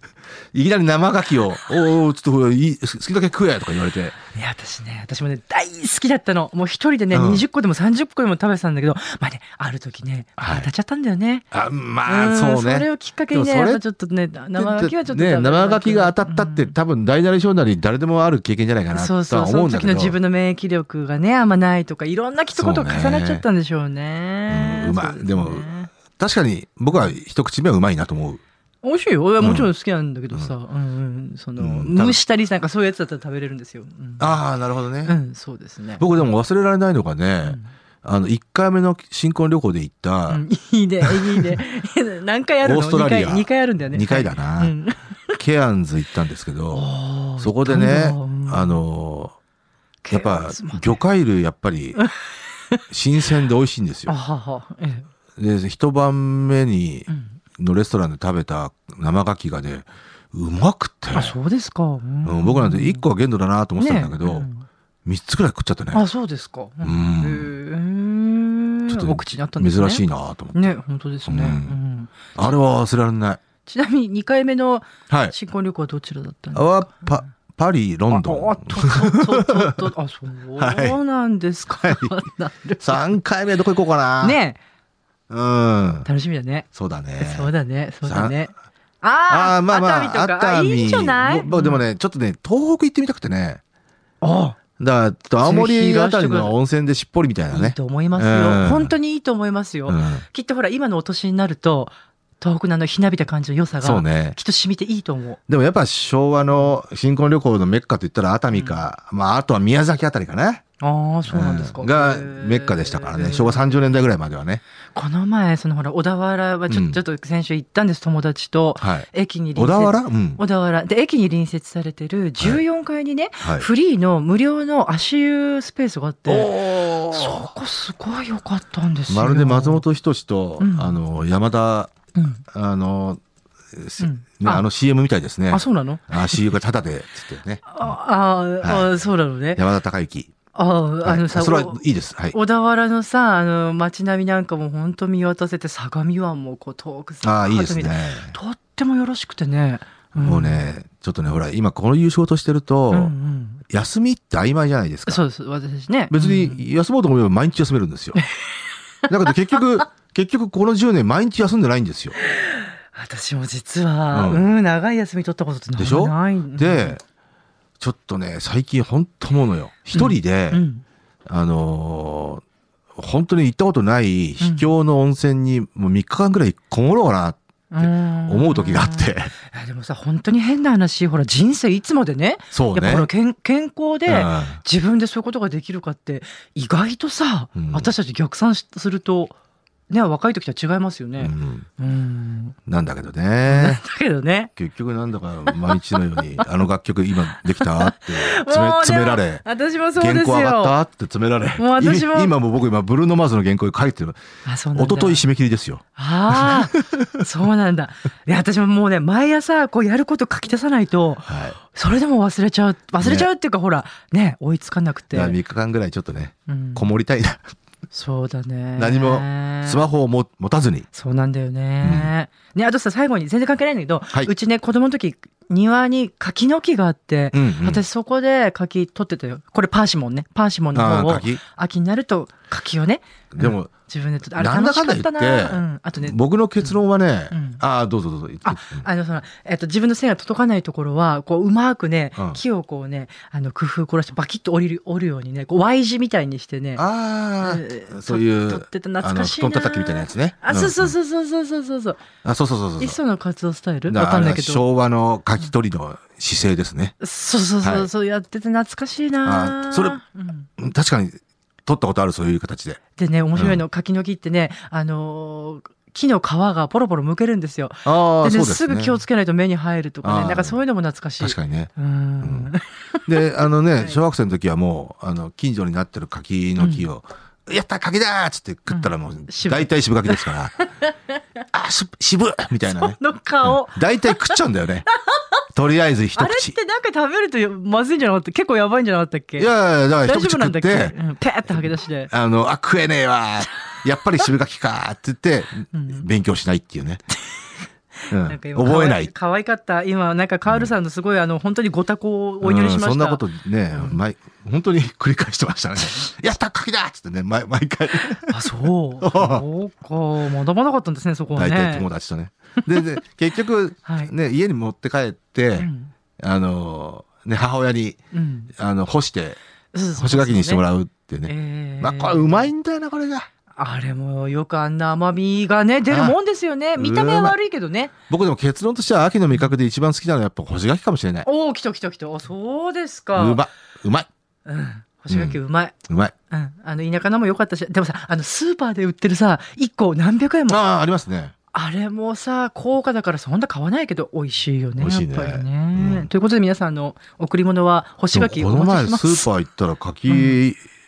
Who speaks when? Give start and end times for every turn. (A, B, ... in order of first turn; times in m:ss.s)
0:00.5-0:04.2 A
0:04.3-0:11.5 B
0:07.1-0:07.4 A
0:10.4-0:10.7 A
0:11.5-0:13.8 A
0:12.0-0:16.7 B
0:14.6-0:20.2 A
0:18.9-0:25.9 B
0:22.6-0:23.4 A
0:24.5-0:28.4 A
0:28.8-0:34.4 B
0:29.4-0:29.7 A
0:31.6-0:32.2 A
0:34.2-0:35.2 A
0:35.0-0:36.2 B
0:36.0-0:40.4 A
0:37.4-0:37.7 B
0:40.3-0:45.4 B
0:41.0-0:41.6 A
0:42.6-0:44.7 A
0:45.3-0:49.4 A
0:46.7-0:48.8 B
0:50.0-0:51.0 B
0:50.1-0:52.0 A
0:52.9-0:54.1 A
0:54.1-0:55.1 B
0:55.4-1:01.4 A
0:57.1-0:57.4 B
1:01.1-1:03.0 B
1:02.2-1:04.5 A
1:03.8-1:04.7 B
1:05.0-1:06.0 A
1:05.9-1:12.1 B
1:06.8-1:07.5 A
1:08.9-1:10.8 A
1:11.3-1:11.8 A
1:12.4-1:13.4 A
1:13.6-1:17.2 B
1:15.1-1:15.3 A
1:16.5-1:19.7 A
1:18.1-1:23.0 B
1:20.6-1:21.0 A
1:21.8-1:22.2 A
1:22.8-1:24.4 A
1:24.2-1:24.6 B
1:25.3-1:26.1 A
1:26.0-1:31.8 B
1:26.7-1:27.5 A
1:28.0-1:28.4 A
1:29.3-1:33.6 A
1:34.2-1:34.6 B
1:34.8-1:38.9 A
1:35.4-1:36.6 B
1:37.5-1:45.4 B
1:39.9-1:40.2 A
1:43.8-1:44.4 A
1:45.5-1:50.6 A
1:48.5-1:48.8 B
1:50.8-1:53.9 B
1:51.3-1:54.6 A
1:54.9-2:09.8 B
1:56.7-1:57.0 A
1:58.8-2:00.4 A
2:03.4-2:03.7 A
2:06.2-2:07.4 A
2:09.1-2:11.9 A
2:10.6-2:11.0 B
2:12.2-2:12.4 B
2:12.5-2:13.2 A
2:13.7-2:17.7 A
2:14.0-2:14.6 B
2:15.5-2:16.4 B
2:17.7-2:19.6 B
2:18.6-2:18.9 A
2:19.5-2:20.4 A
2:20.5-2:30.7 B
2:21.0-2:22.4 A
2:27.2-2:28.3 A
2:30.2-2:33.1 A
2:32.9-2:33.6 B
2:33.7-2:35.2 A
2:35.1-2:36.6 B
2:36.1-2:38.2 A
2:38.2-2:38.4 B
2:39.0-2:39.6 B
2:39.1-2:42.2 A
2:42.2-2:47.0 B
2:44.1-2:44.4 A
2:45.8-2:47.0 A
2:47.8-2:50.6 A
2:49.9-2:50.8 B
2:51.3-2:52.4 A
2:53.0-2:59.3 A
2:54.4-2:54.7 B
2:57.7-3:09.3 B
3:02.5-3:03.1 A
3:04.1-3:04.6 A
3:07.5-3:07.9 A
3:09.9-3:12.6 B
3:11.2-3:11.7 A
3:12.7-3:13.8 A
3:13.4-3:14.5 B
3:14.6-3:19.4 A
3:15.5-3:16.6 B
3:17.4-3:20.8 B
3:20.0-3:24.2 A
3:21.6-3:22.4 B
3:24.4-3:25.2 B
3:24.7-3:27.1 A
3:26.0-3:35.4 B
3:31.3-3:31.6 A
3:33.0-3:33.3 A
3:35.1-3:37.4 A
3:36.5-3:36.9 B
3:37.9-3:39.8 B
3:38.8-3:40.8 A
3:40.9-3:56.8 B
3:41.8-3:42.1 A
3:47.3-3:47.8 A
3:50.7-3:51.4 A
3:53.3-3:53.7 A
3:54.4-3:58.9 A
3:57.3-3:57.6 B
3:58.4-4:06.8 B
4:02.2-4:02.4 A
4:06.8-4:10.9 A
4:07.4-4:12.0 B
4:12.2-4:13.0 A
4:12.8-4:14.6 B
4:13.9-4:16.9 A
4:17.0-4:20.5 B
4:17.6-4:17.9 A
4:19.2-4:20.0 A
4:20.6-4:22.8 A
4:23.0-4:33.2 B
4:23.3-4:23.6 A
4:27.8-4:29.0 A
4:30.0-4:30.6 A
4:31.2-4:31.7 A
4:32.2-4:32.5 A
4:33.0-4:40.6 A
4:36.6-4:36.9 B
4:38.7-4:40.9 B
4:41.5-4:44.9 A
4:42.7-4:44.4 B
4:45.5-4:46.5 A
4:46.2-4:49.5 B
4:49.4-4:51.0 A
4:50.0-4:52.1 B
4:51.5-4:57.0 A
4:55.7-4:56.0 B
4:58.1-5:04.0 B
4:58.1-4:59.1 A
5:00.5-5:00.7 A
5:02.4-5:08.5 A
5:08.3-5:11.9 B
5:09.0-5:09.4 A
5:11.4-5:18.0 A
5:12.6-5:13.0 B
5:13.8-5:14.1 B
5:15.6-5:15.9 B
5:18.1-5:18.5 B
5:18.5-5:19.4 A
5:19.7-5:20.6 B
5:20.0-5:23.3 A
5:21.2-5:22.5 B
5:23.6-5:27.9 B
5:25.9-5:26.2 A
5:26.8-5:27.4 A
5:28.1-5:31.3 A
5:31.2-5:33.4 B
5:33.2-5:34.1 A
5:34.4-5:35.7 B
5:35.1-5:36.1 A
5:36.3-5:40.6 B
5:40.5-5:41.3 A
5:41.5-5:49.3 B
5:44.8-5:46.1 A
5:48.1-5:50.6 A
5:50.1-5:50.4 B